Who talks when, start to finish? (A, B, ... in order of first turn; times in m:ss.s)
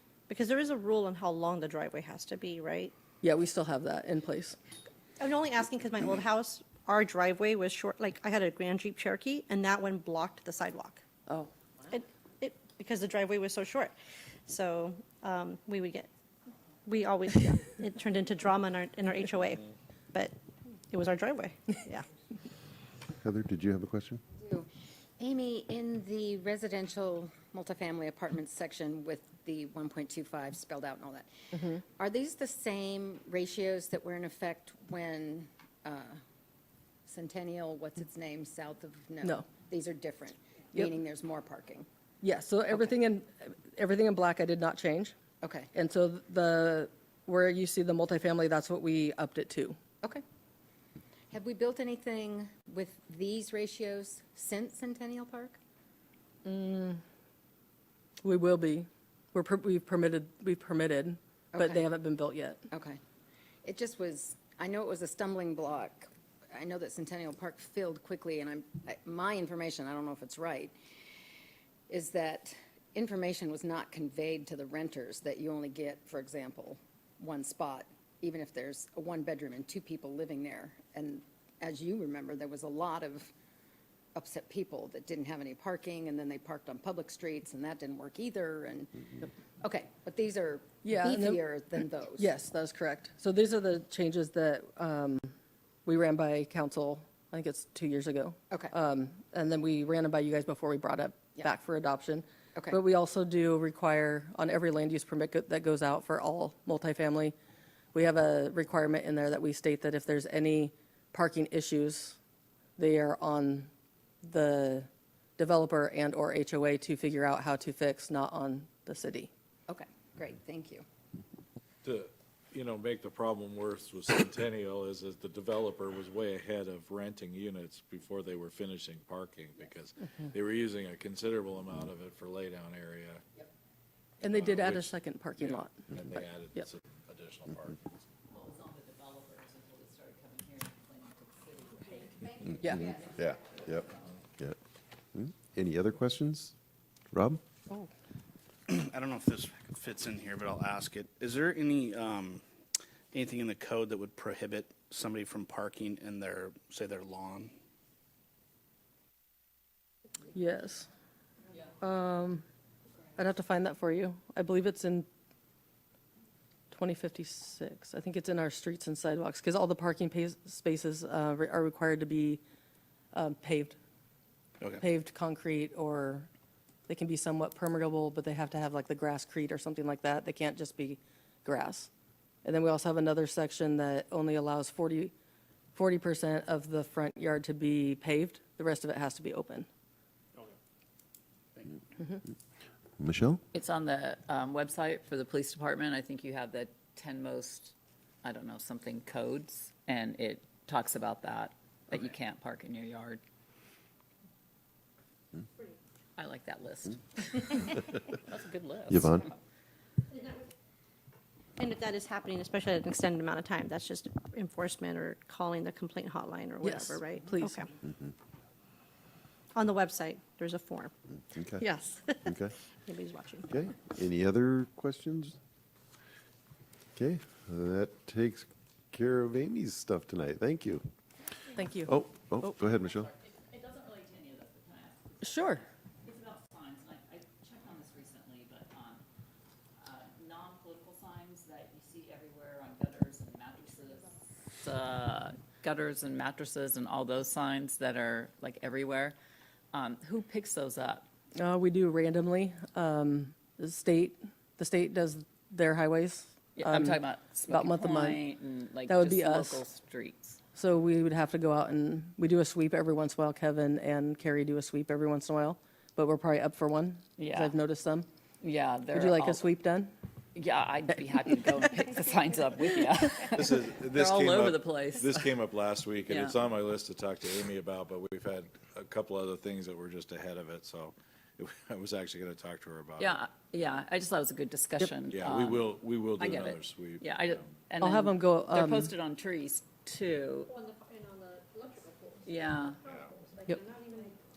0:00.3-0:02.9 A
0:03.2-0:04.6 B
0:05.2-0:11.0 A
0:11.9-0:14.0 A
0:14.5-0:16.1 A
0:16.9-0:20.4 A
0:20.9-0:22.1 A
0:23.2-0:24.2 C
0:24.4-0:24.7 D
0:25.2-0:31.3 D
0:32.0-0:36.2 D
0:37.1-0:41.9 D
0:42.2-0:45.2 B
0:45.4-0:45.7 D
0:45.7-0:49.8 B
0:51.3-0:55.6 D
0:56.4-0:57.0 B
0:58.2-1:02.6 B
1:01.5-1:01.8 D
1:02.7-1:03.0 D
1:03.6-1:10.8 D
1:11.9-1:23.3 D
1:24.2-1:32.3 D
1:30.8-1:31.4 B
1:32.2-1:35.3 B
1:35.9-1:47.4 B
1:47.9-1:52.2 B
1:52.8-1:53.7 B
1:54.2-1:59.3 B
1:59.7-2:00.9 D
2:01.8-2:13.2 E
2:14.2-2:16.6 B
2:14.2-2:17.9 E
2:18.3-2:24.0 F
2:23.1-2:23.9 C
2:25.2-2:26.5 C
2:27.1-2:27.4 C
2:28.7-2:32.4 G
2:33.1-2:37.5 G
2:40.3-2:40.9 B
2:41.8-2:42.4 B
2:43.2-2:45.1 B
2:46.7-2:52.4 B
2:53.1-2:53.8 B
2:54.8-2:56.3 B
2:56.9-3:01.9 B
3:02.4-3:05.1 B
3:05.8-3:09.7 B
3:13.0-3:13.4 C
3:13.5-3:23.2 F
3:26.2-3:29.4 F
3:28.9-3:29.3 C
3:31.6-3:37.7 A
3:36.6-3:37.6 B
3:39.6-3:40.9 A
3:41.4-3:41.7 C
3:41.8-3:42.4 A
3:42.2-3:42.5 C
3:42.9-3:43.5 A
3:43.5-3:45.4 C
3:47.0-3:50.8 C
3:51.6-3:51.9 B
3:51.9-3:53.1 C
3:52.8-3:59.0 F
3:55.2-3:55.6 B
3:59.8-4:09.2 F
4:09.7-4:11.0 F
4:11.4-4:18.2 B
4:16.6-4:20.4 F
4:18.9-4:19.6 B
4:20.6-4:28.1 B
4:27.2-4:27.6 F
4:28.4-4:29.4 F
4:28.9-4:29.9 B
4:30.4-4:35.2 F
4:33.4-4:43.2 E
4:36.1-4:36.4 F
4:43.0-4:50.5 F
4:45.1-4:47.6 E
4:47.8-4:48.9 B
4:52.2-4:52.8 F
4:53.5-4:54.0 A